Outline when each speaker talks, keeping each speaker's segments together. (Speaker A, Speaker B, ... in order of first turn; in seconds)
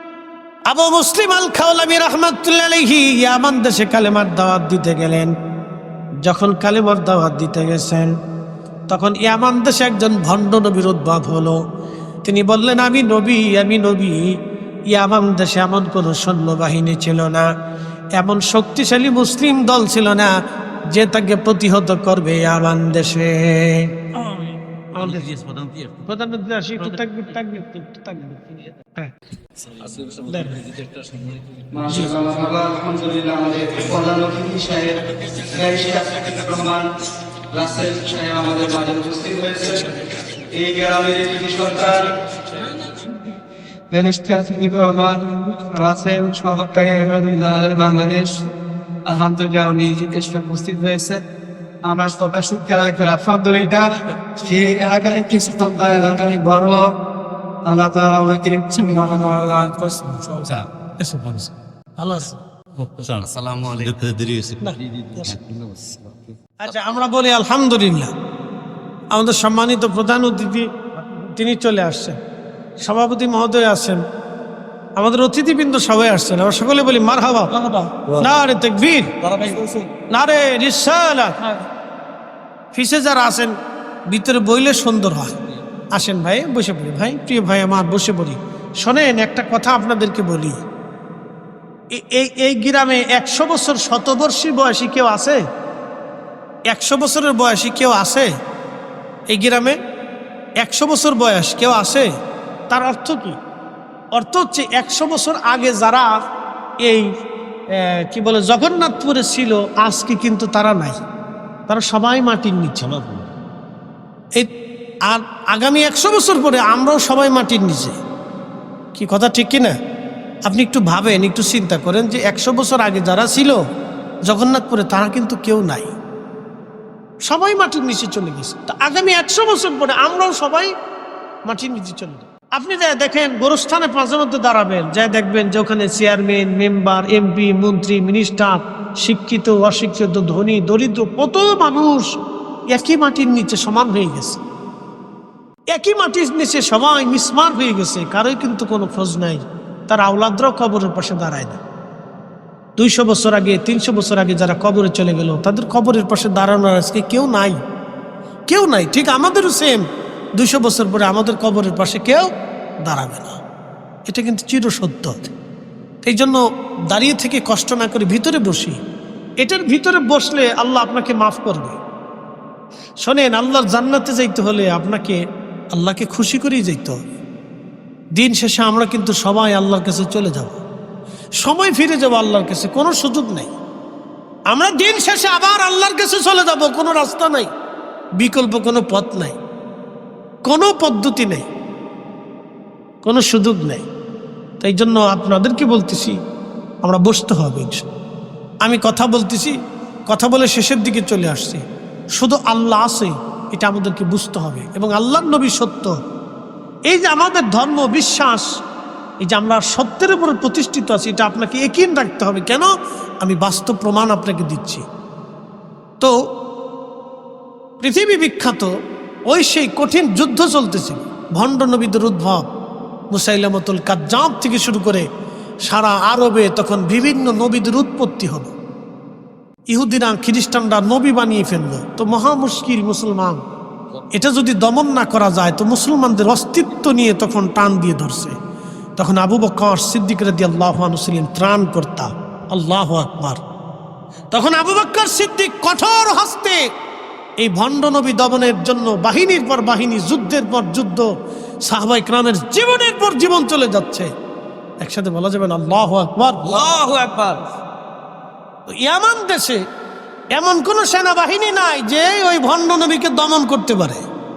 Speaker A: 0.7-5.3, 6.2-8.1, 8.9-11.6, 12.2-14.3, 14.9-17.5, 18.2-20.3, 20.9-23.9, 24.9-25.3, 26.0-29.1, 30.3-30.7, 61.0-62.4, 64.6-65.4, 66.6-68.1, 69.1-72.2, 72.8-74.0, 75.0-77.6, 78.2-79.2, 80.1-81.4, 82.7-83.5, 84.1-85.3, 85.9-90.6, 91.9-95.4, 96.7-98.3, 99.3-99.8, 100.6-102.1, 102.7-103.4, 104.1-106.1, 107.8-111.0, 111.7-113.3, 115.1-118.0, 119.0-119.8, 120.5-123.6, 124.3-125.9, 127.3-130.7, 131.5-142.2, 142.7-144.4, 145.7-151.6, 152.8-157.6, 158.5-159.8, 160.4-162.3, 162.8-163.4, 164.1-165.3, 166.0-168.8, 169.4-171.8, 173.0-175.2, 175.7-177.0, 178.2-180.6, 181.4-183.5, 184.5-187.5, 188.2-189.4, 190.5-191.4, 193.0-193.8, 194.6-196.2, 196.8-197.9, 198.6-199.5, 200.1-201.6, 202.2-205.9, 206.9-208.5, 209.2-212.7, 213.2-214.8, 217.8-218.7, 219.3-222.4, 223.1-225.1, 225.7-228.5, 229.7-233.4, 234.1-238.3, 239.0-243.4, 244.3-246.6, 247.4-251.1, 251.7-254.1, 254.8-256.7, 258.7-259.6, 260.3-264.0
Speaker B: 25.0-26.0, 29.9-30.9, 62.9-66.3, 79.3-79.7, 256.6-257.4
Speaker C: 31.7-36.9, 37.5-42.2, 43.9-48.5, 49.1-51.2, 51.9-56.9, 57.6-60.7